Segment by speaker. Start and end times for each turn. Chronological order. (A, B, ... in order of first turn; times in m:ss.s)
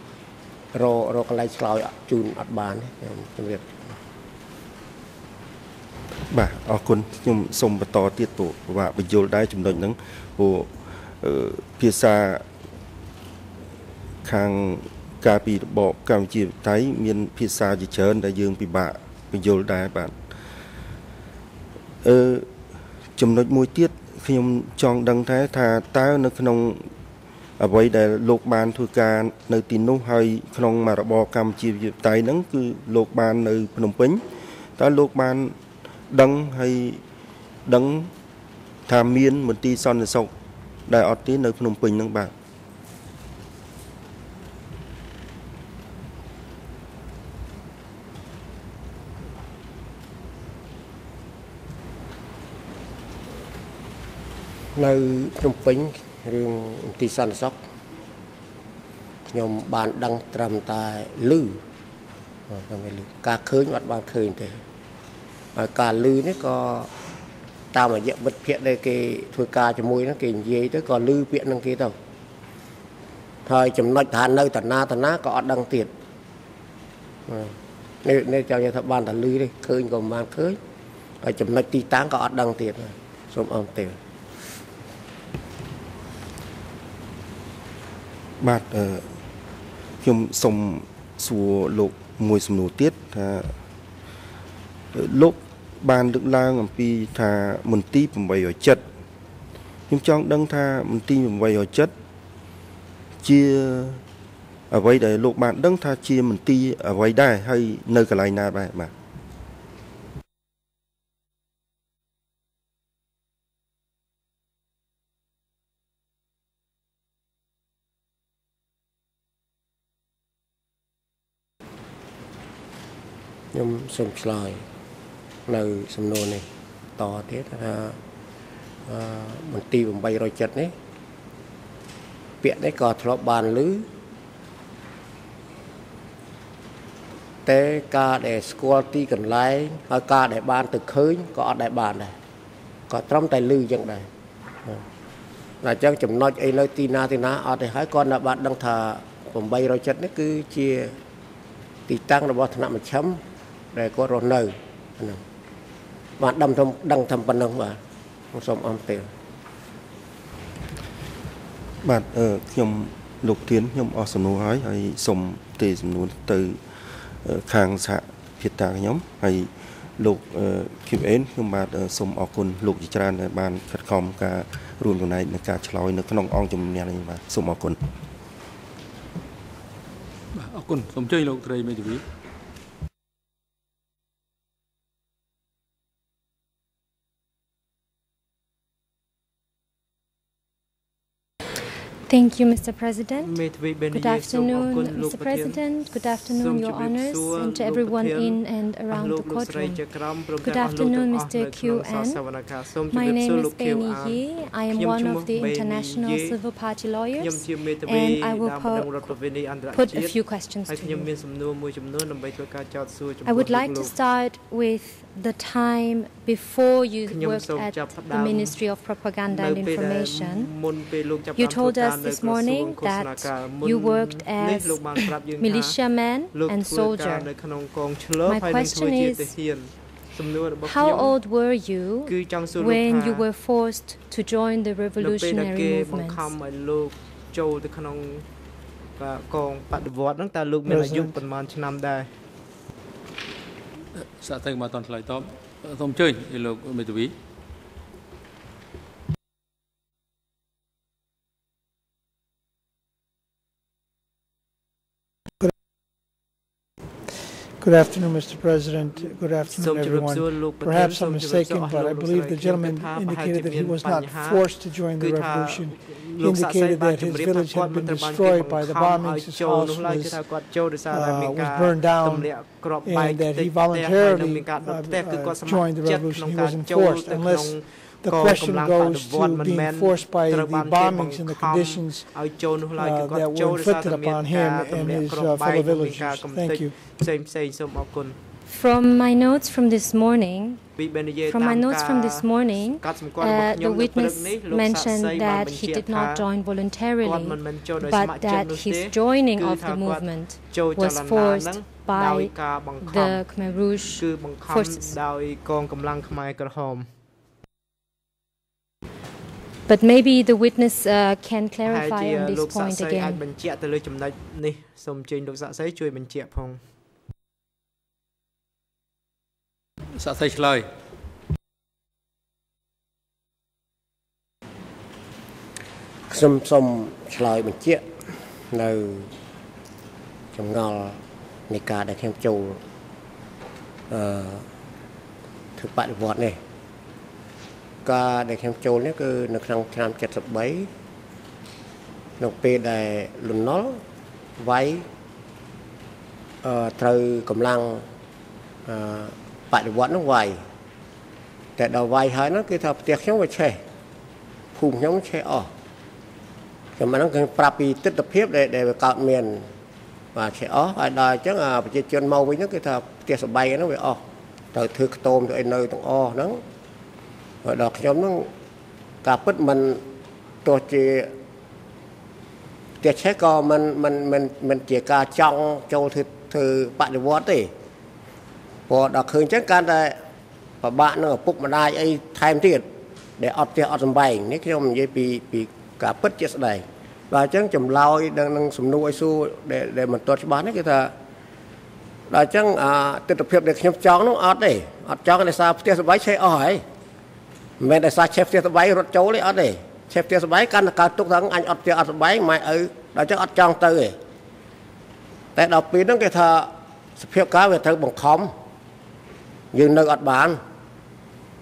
0:00.7-0:03.9 A
0:06.3-0:12.4 B
0:14.2-0:20.1 B
0:22.0-0:22.5 B
0:23.2-0:26.9 B
0:27.6-0:34.2 B
0:34.8-0:35.6 B
0:36.1-0:37.0 B
0:37.6-0:38.1 B
0:38.9-0:40.3 B
0:40.9-0:42.3 B
0:54.7-0:57.6 A
0:59.3-1:01.6 A
1:02.5-1:04.6 A
1:05.5-1:06.9 A
1:07.7-1:11.9 A
1:13.4-1:15.9 A
1:17.3-1:20.6 A
1:21.2-1:24.0 A
1:28.4-1:29.1 B
1:30.0-1:33.5 B
1:34.9-1:38.8 B
1:39.9-1:41.9 B
1:43.2-1:44.0 B
1:44.7-1:48.9 B
2:03.5-2:04.6 A
2:05.5-2:06.4 A
2:07.0-2:08.0 A
2:08.9-2:10.7 A
2:12.4-2:13.9 A
2:17.4-2:22.1 A
2:22.9-2:24.0 A
2:25.6-2:31.0 A
2:31.9-2:33.2 A
2:33.7-2:35.2 A
2:36.2-2:37.8 A
2:38.3-2:39.1 A
2:41.8-2:46.6 B
2:47.2-2:57.8 B
3:00.3-3:02.0 C
3:12.1-3:13.3 D
3:13.2-3:26.4 E
3:13.9-3:22.4 D
3:22.9-3:29.1 D
3:27.1-3:33.9 E
3:29.7-3:31.1 D
3:33.2-3:40.5 D
3:37.1-3:38.6 E
3:39.3-3:51.2 E
3:41.4-3:47.3 D
3:48.2-3:49.3 D
3:50.6-3:56.3 D
3:52.0-3:53.2 E
3:55.0-3:58.2 E
3:59.0-4:02.1 E
4:00.6-4:01.1 F
4:04.0-4:07.1 C
4:17.6-4:42.1 F
4:19.4-4:48.2 E
4:42.8-4:46.8 F
4:48.5-4:50.6 D
4:50.8-4:56.2 E
4:51.2-5:04.9 D
4:57.0-5:06.9 E
5:09.7-5:13.2 D
5:11.6-5:16.7 E
5:19.9-5:20.7 C
5:26.1-5:27.8 A
5:28.5-5:29.1 A
5:30.3-5:32.6 A
5:33.9-5:34.5 A
5:35.6-5:36.4 A
5:37.8-5:40.7 A
5:42.2-5:43.8 A
5:44.4-5:44.8 A
5:46.4-5:47.9 A
5:48.7-5:50.4 A
5:51.6-5:53.6 A
5:54.5-5:55.5 A
5:56.8-5:59.5 A
6:00.1-6:04.0 A
6:04.5-6:06.4 A
6:07.4-6:08.3 A
6:09.0-6:09.8 A
6:10.4-6:11.1 A
6:12.8-6:17.5 A
6:18.7-6:20.0 A
6:20.6-6:22.6 A
6:23.2-6:30.9 A
6:32.1-6:36.6 A
6:37.6-6:44.0 A
6:45.4-6:48.3 A
6:49.5-6:50.4 A